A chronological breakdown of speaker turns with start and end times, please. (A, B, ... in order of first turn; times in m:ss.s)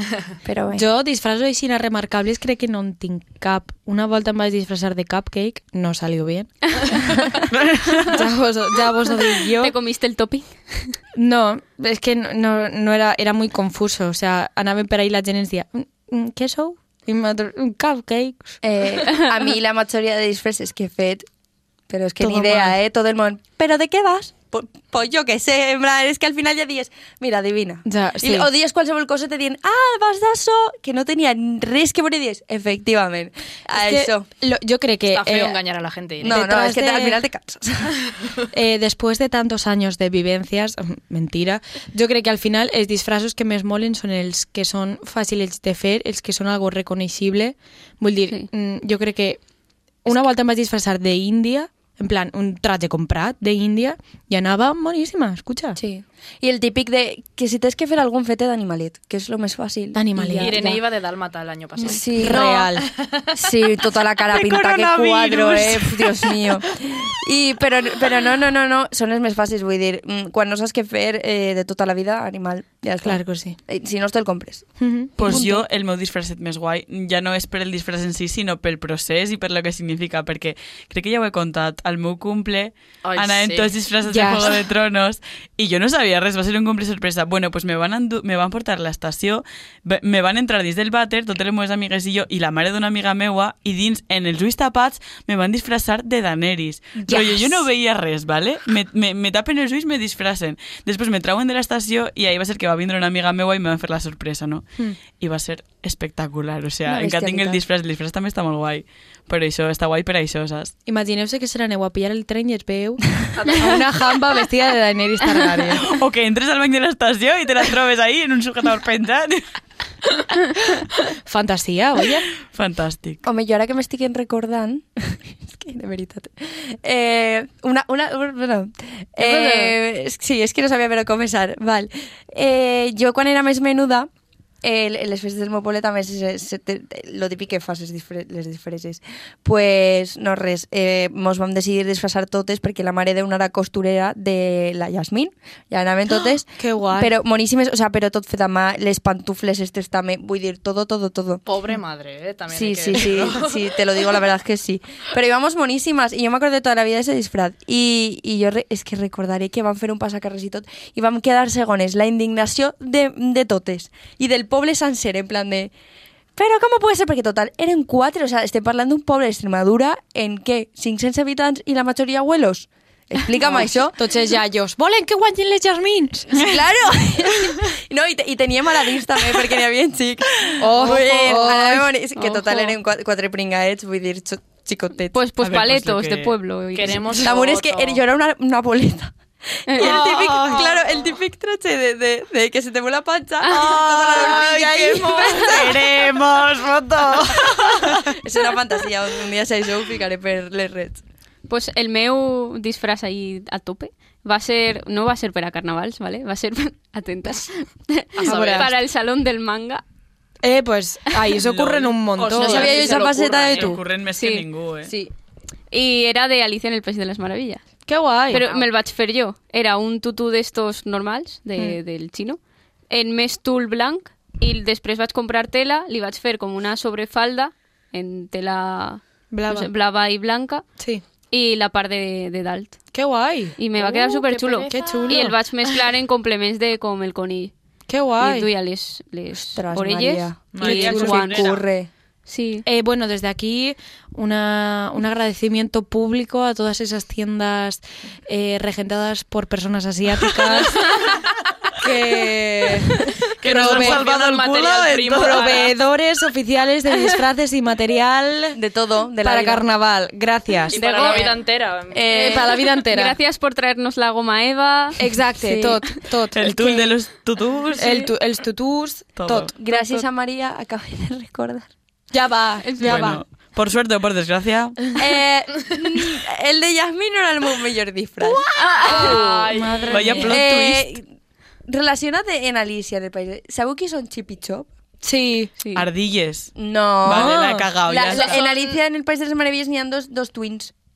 0:00.4-0:00.8 A
0:00.7-0:07.4 B
0:07.5-0:08.2 C
0:08.0-0:09.8 B
0:09.6-0:11.0 D
0:11.2-0:18.6 B
0:18.6-0:21.3 A
0:21.9-0:34.3 A
0:22.2-0:22.8 B
0:27.8-0:28.5 B
0:33.7-0:35.6 B
0:35.1-0:36.5 E
0:36.2-0:38.0 A
0:36.2-0:37.2 B
0:38.5-0:49.4 B
0:50.0-0:55.8 B
0:55.8-1:00.8 A
0:59.9-1:00.6 B
1:00.4-1:03.2 E
1:01.8-1:02.7 A
1:02.1-1:02.9 B
1:03.3-1:15.6 A
1:04.3-1:06.3 C
1:13.0-1:13.6 B
1:14.8-1:15.5 B
1:15.2-1:50.8 C
1:23.0-1:23.8 E
1:24.0-1:24.5 B
1:37.0-1:37.4 B
1:46.9-1:47.6 A
1:50.9-1:55.8 B
1:53.4-1:53.9 E
1:55.8-1:59.4 C
2:01.3-2:02.3 B
2:02.5-2:03.2 C
2:03.2-2:14.1 A
2:14.6-2:31.4 A
2:26.6-2:27.1 B
2:31.4-2:34.1 E
2:32.5-2:45.7 A
2:46.4-2:54.0 A
2:53.5-2:56.4 B
2:56.4-3:05.2 A
3:00.6-3:01.9 B
3:00.8-3:01.6 D
3:02.2-3:02.8 D
3:05.1-3:07.3 D
3:05.4-3:06.4 C
3:06.7-3:08.0 E
3:07.2-3:09.1 A
3:09.7-3:10.1 D
3:09.7-3:16.0 A
3:09.8-3:10.7 C
3:09.9-3:10.2 B
3:13.5-3:18.1 C
3:13.5-3:15.7 B
3:18.1-3:21.0 A
3:21.5-3:29.8 D
3:28.2-3:28.7 B
3:28.3-3:28.7 E
3:30.4-3:32.9 B
3:31.5-3:32.0 C
3:32.2-3:33.8 E
3:32.4-3:33.8 A
3:33.5-3:34.9 C
3:34.1-3:34.5 D
3:34.9-3:35.1 A
3:35.7-3:37.6 D
3:37.9-3:38.5 B
3:38.3-3:42.4 D
3:42.9-3:50.6 D
3:49.3-3:49.7 B
3:50.8-3:51.0 B
3:51.3-3:52.8 D
3:52.9-3:53.6 B
3:53.6-3:57.5 D
3:53.8-3:55.1 E
3:54.7-3:55.4 B
3:57.9-3:58.5 B
3:58.2-4:01.5 D
3:59.4-4:01.9 A
4:00.5-4:01.6 C
4:00.6-4:01.3 B
4:02.3-4:02.6 D
4:02.6-4:11.2 B
4:11.8-4:14.1 B
4:13.4-4:15.5 C
4:13.4-4:15.7 E
4:15.0-4:18.6 B
4:18.5-4:19.6 A
4:19.2-4:21.2 B
4:20.7-4:22.5 E
4:20.7-4:21.3 D
4:21.0-4:21.3 A
4:21.9-4:22.7 A
4:22.1-4:23.2 B
4:22.9-4:25.0 D
4:25.0-4:27.0 B
4:25.4-4:25.8 A
4:26.3-4:28.1 C
4:27.8-4:29.5 B
4:29.1-4:29.5 C
4:29.5-4:31.7 A
4:29.7-4:30.0 D
4:32.1-4:33.2 B
4:32.6-4:33.1 D
4:32.8-4:35.0 C
4:34.9-4:38.4 A
4:38.2-4:40.4 B
4:38.6-4:39.1 D
4:38.8-4:40.4 E
4:38.9-4:39.4 A
4:39.9-4:40.9 C
4:40.2-4:41.1 A
4:41.7-4:44.7 A
4:45.0-4:45.5 B
4:45.6-4:45.9 D
4:45.7-4:46.5 C
4:46.6-4:50.7 A
4:47.0-4:48.4 C
4:47.1-4:47.7 B
4:48.1-4:48.8 E